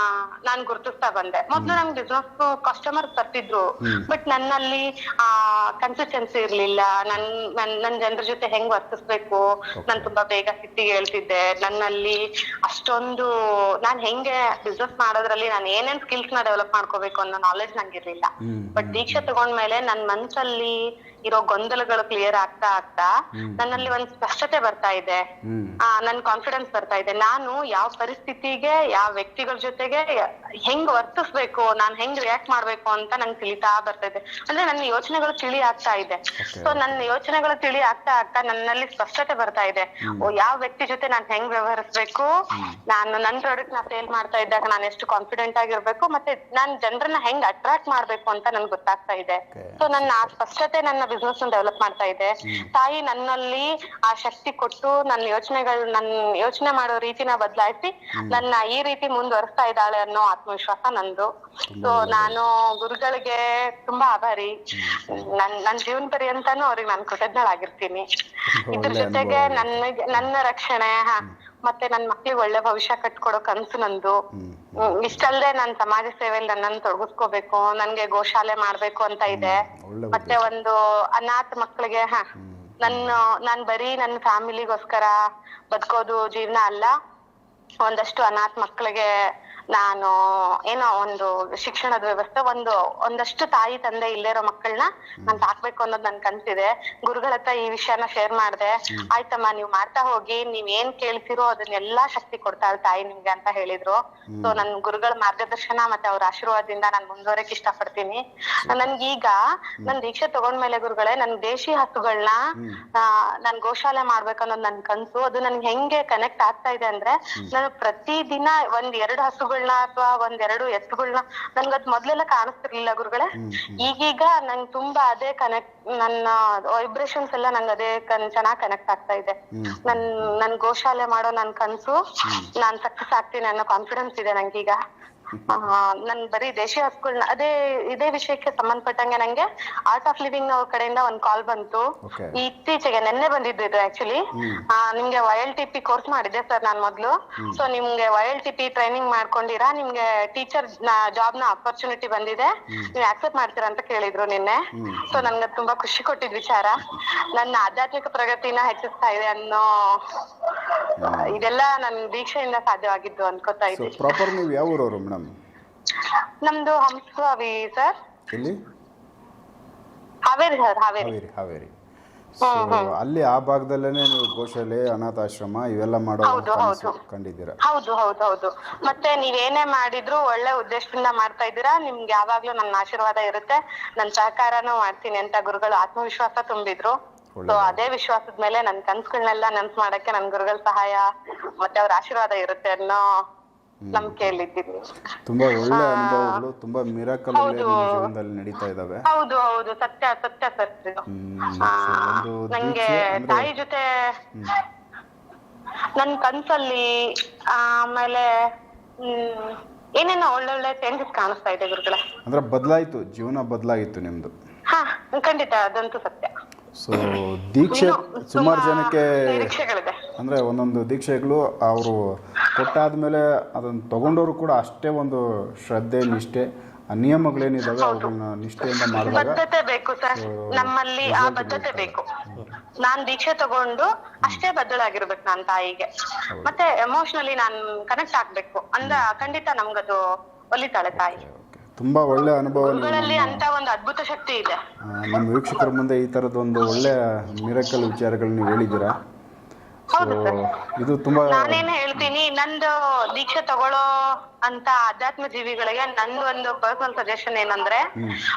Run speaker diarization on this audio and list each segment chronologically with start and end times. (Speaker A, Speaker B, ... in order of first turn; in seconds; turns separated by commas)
Speaker A: 0.5-13.3, Speaker B: 1.5-1.8, Speaker B: 3.8-4.1, Speaker B: 9.8-10.1, Speaker A: 13.8-20.8, Speaker B: 18.4-19.3, Speaker A: 21.3-25.2, Speaker B: 23.4-23.9, Speaker B: 25.4-25.8, Speaker A: 25.9-30.1, Speaker A: 30.7-42.3, Speaker B: 36.4-37.0, Speaker B: 42.5-42.8, Speaker A: 42.9-61.3, Speaker B: 49.5-50.3, Speaker B: 58.2-58.4, Speaker B: 61.7-62.4, Speaker A: 61.8-64.5, Speaker B: 64.8-65.3, Speaker A: 65.1-68.0, Speaker B: 68.5-70.3, Speaker A: 68.7-74.2, Speaker B: 74.3-75.3, Speaker A: 74.8-79.6, Speaker B: 79.3-80.5, Speaker A: 80.1-82.2, Speaker B: 82.4-83.2, Speaker A: 82.8-85.1, Speaker A: 85.7-86.9, Speaker A: 87.8-89.1, Speaker A: 89.7-90.1, Speaker A: 90.7-112.4, Speaker B: 95.2-95.5, Speaker B: 104.3-104.6, Speaker A: 113.0-129.3, Speaker B: 123.4-123.9, Speaker B: 129.5-130.3, Speaker A: 129.9-132.0, Speaker B: 132.2-132.5, Speaker A: 132.6-134.8, Speaker B: 135.3-135.6, Speaker A: 135.5-141.8, Speaker B: 142.0-142.4, Speaker A: 142.3-164.3, Speaker B: 144.4-144.6, Speaker B: 152.7-152.9, Speaker B: 154.7-155.3, Speaker B: 161.0-161.4, Speaker B: 163.7-165.3, Speaker A: 166.0-167.9, Speaker B: 168.3-168.6, Speaker A: 170.3-171.1, Speaker B: 171.0-171.7, Speaker B: 172.4-177.6, Speaker A: 172.4-172.9, Speaker A: 176.2-177.0, Speaker A: 177.6-186.9, Speaker B: 187.3-187.9, Speaker A: 187.5-191.0, Speaker A: 191.6-193.0, Speaker B: 193.8-194.4, Speaker A: 193.9-194.9, Speaker B: 195.2-199.0, Speaker A: 195.7-196.4, Speaker A: 197.3-198.1, Speaker A: 199.1-201.0, Speaker B: 201.1-203.5, Speaker A: 201.6-203.8, Speaker A: 206.0-206.9, Speaker A: 207.5-208.2, Speaker A: 209.0-212.0, Speaker B: 212.2-214.3, Speaker A: 214.7-216.3, Speaker B: 216.8-219.5, Speaker A: 217.7-220.0, Speaker B: 220.2-229.4, Speaker A: 227.8-228.1, Speaker A: 228.7-232.1, Speaker B: 230.1-232.5, Speaker A: 232.8-235.9, Speaker B: 236.3-236.6, Speaker A: 236.4-240.0, Speaker B: 238.8-239.3, Speaker A: 240.5-241.2, Speaker B: 240.9-243.4, Speaker A: 242.5-244.6, Speaker B: 244.8-248.9, Speaker A: 249.9-250.4, Speaker B: 249.9-252.1, Speaker A: 251.3-253.8, Speaker A: 254.4-257.8